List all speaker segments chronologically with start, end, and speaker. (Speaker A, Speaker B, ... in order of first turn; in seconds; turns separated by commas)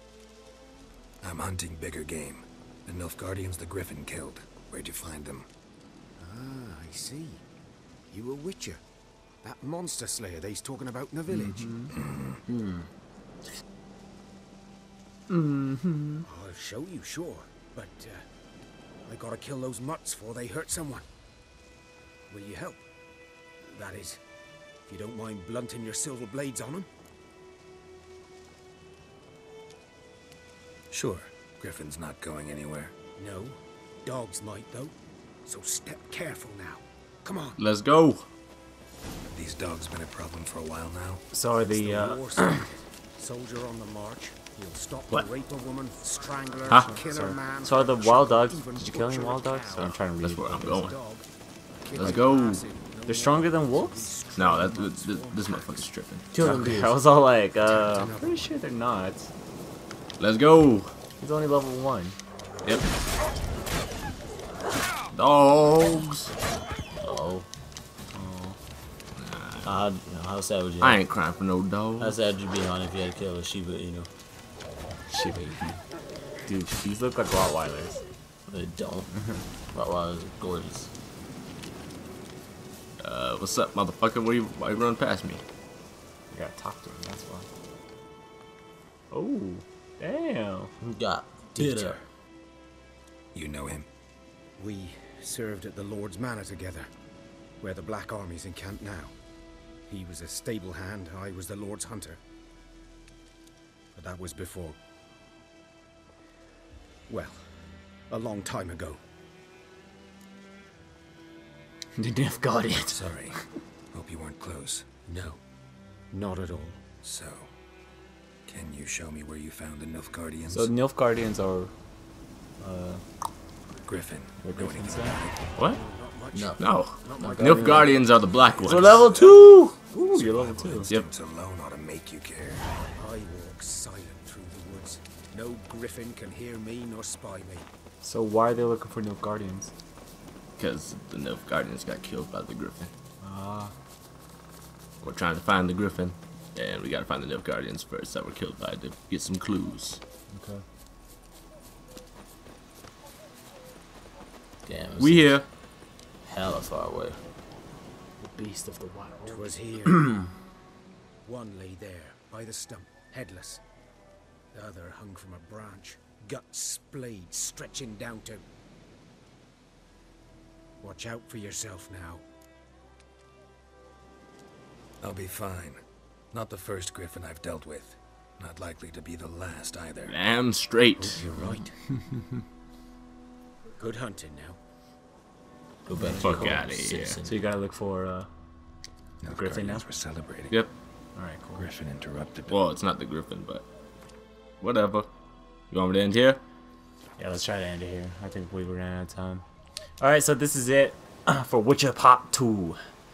Speaker A: 1.2-5.5, Speaker B: 6.2-7.4, Speaker B: 8.1-8.8, Speaker B: 9.4-12.0, Speaker C: 11.3-11.9, Speaker A: 12.0-12.4, Speaker D: 12.5-12.9, Speaker C: 15.3-16.3, Speaker B: 16.2-18.3, Speaker B: 19.1-21.1, Speaker B: 22.3-22.9, Speaker B: 23.6-24.2, Speaker B: 24.9-26.9, Speaker A: 30.9-33.0, Speaker B: 33.2-37.6, Speaker E: 37.6-38.2, Speaker A: 39.3-41.2, Speaker C: 41.3-42.7, Speaker B: 41.6-50.0, Speaker C: 46.9-50.7, Speaker E: 50.2-51.0, Speaker B: 50.6-51.3, Speaker B: 51.8-55.8, Speaker E: 51.9-52.6, Speaker C: 53.1-54.1, Speaker E: 54.4-56.3, Speaker D: 56.3-57.0, Speaker C: 56.4-59.3, Speaker B: 57.6-58.5, Speaker E: 60.2-60.9, Speaker C: 61.2-62.2, Speaker E: 65.1-66.3, Speaker D: 67.0-67.5, Speaker C: 68.1-68.6, Speaker E: 69.2-69.8, Speaker D: 69.7-71.0, Speaker E: 70.8-72.2, Speaker D: 72.0-74.1, Speaker C: 75.1-75.8, Speaker C: 76.5-78.0, Speaker D: 78.5-79.1, Speaker C: 79.1-79.5, Speaker D: 79.7-80.9, Speaker E: 83.0-85.4, Speaker C: 86.3-87.5, Speaker C: 89.1-90.7, Speaker D: 90.8-92.0, Speaker A: 91.6-92.0, Speaker A: 93.3-93.9, Speaker B: 94.6-96.9, Speaker B: 97.6-99.2, Speaker B: 99.9-102.2, Speaker B: 103.9-104.8, Speaker B: 107.1-109.0, Speaker C: 112.0-113.4, Speaker A: 112.8-113.4, Speaker A: 113.9-114.9, Speaker B: 115.1-115.4, Speaker B: 116.1-116.9, Speaker A: 117.0-117.5, Speaker A: 118.5-120.7, Speaker C: 120.5-121.7, Speaker C: 122.6-123.0, Speaker A: 123.8-125.4, Speaker C: 124.4-125.8, Speaker B: 125.6-128.1, Speaker D: 126.3-126.6, Speaker E: 126.6-129.1, Speaker D: 127.2-127.9, Speaker D: 128.7-129.8, Speaker A: 128.7-132.7, Speaker C: 129.9-130.9, Speaker B: 133.0-137.7, Speaker C: 138.0-139.7, Speaker E: 140.6-142.9, Speaker C: 143.2-143.7, Speaker E: 145.0-150.0, Speaker C: 150.3-150.6, Speaker D: 154.7-155.4, Speaker E: 155.0-155.5, Speaker D: 156.3-157.2, Speaker C: 158.2-159.5, Speaker B: 159.3-160.2, Speaker B: 161.2-163.6, Speaker B: 164.5-168.4, Speaker B: 170.8-172.2, Speaker A: 175.0-180.2, Speaker E: 180.1-181.2, Speaker B: 181.0-181.7, Speaker B: 183.8-184.6, Speaker D: 185.9-187.5, Speaker E: 186.2-187.2, Speaker C: 187.2-188.3, Speaker A: 189.2-190.6, Speaker C: 189.3-189.9, Speaker C: 191.2-191.7, Speaker A: 191.6-192.6, Speaker E: 192.5-193.6, Speaker E: 194.6-195.1, Speaker E: 195.7-196.4, Speaker C: 197.2-199.4, Speaker C: 200.0-202.8